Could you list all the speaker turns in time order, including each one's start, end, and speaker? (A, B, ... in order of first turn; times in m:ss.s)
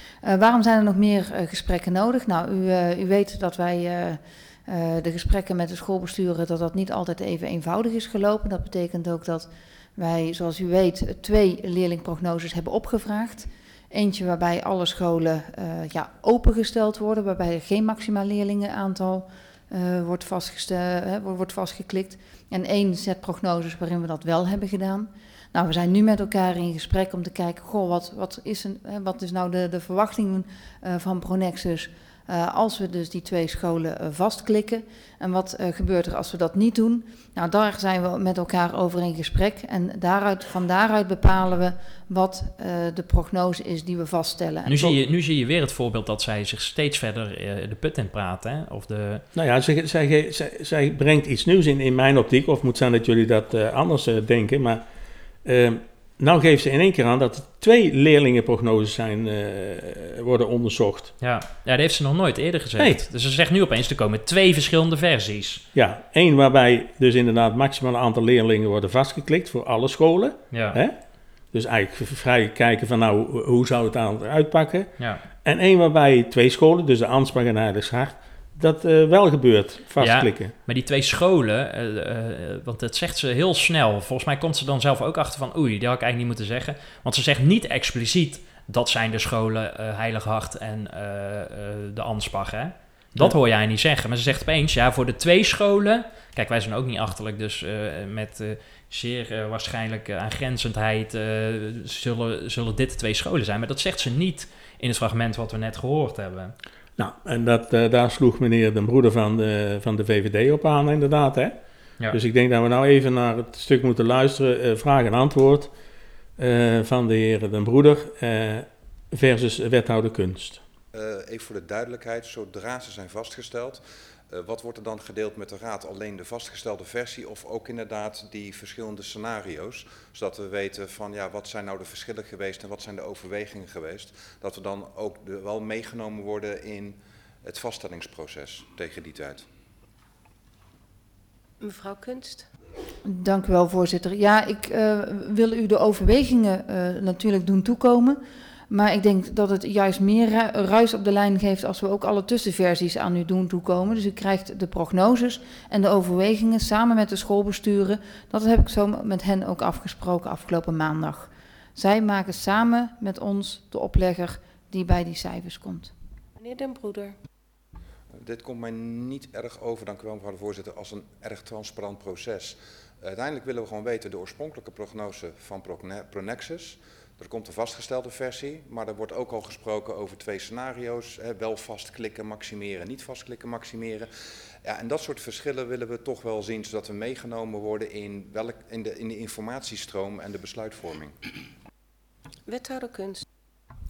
0:00.2-0:45.0 A
0:44.6-0:49.2 B
0:49.3-0:54.8 C
0:55.4-1:01.1 C
1:01.2-1:05.6 B
1:05.7-1:11.0 C
1:10.5-1:10.8 B
1:11.5-1:14.9 C
1:15.4-1:20.5 C
1:20.0-1:46.5 B
1:47.0-1:51.6 C
1:52.1-1:55.7 C
1:56.4-2:00.6 C
2:00.9-2:19.4 D
2:21.6-2:22.5 E
2:23.0-2:45.9 A
2:46.4-2:47.2 E
2:48.2-3:04.1 D
3:04.6-3:11.2 D
3:12.4-3:13.2 E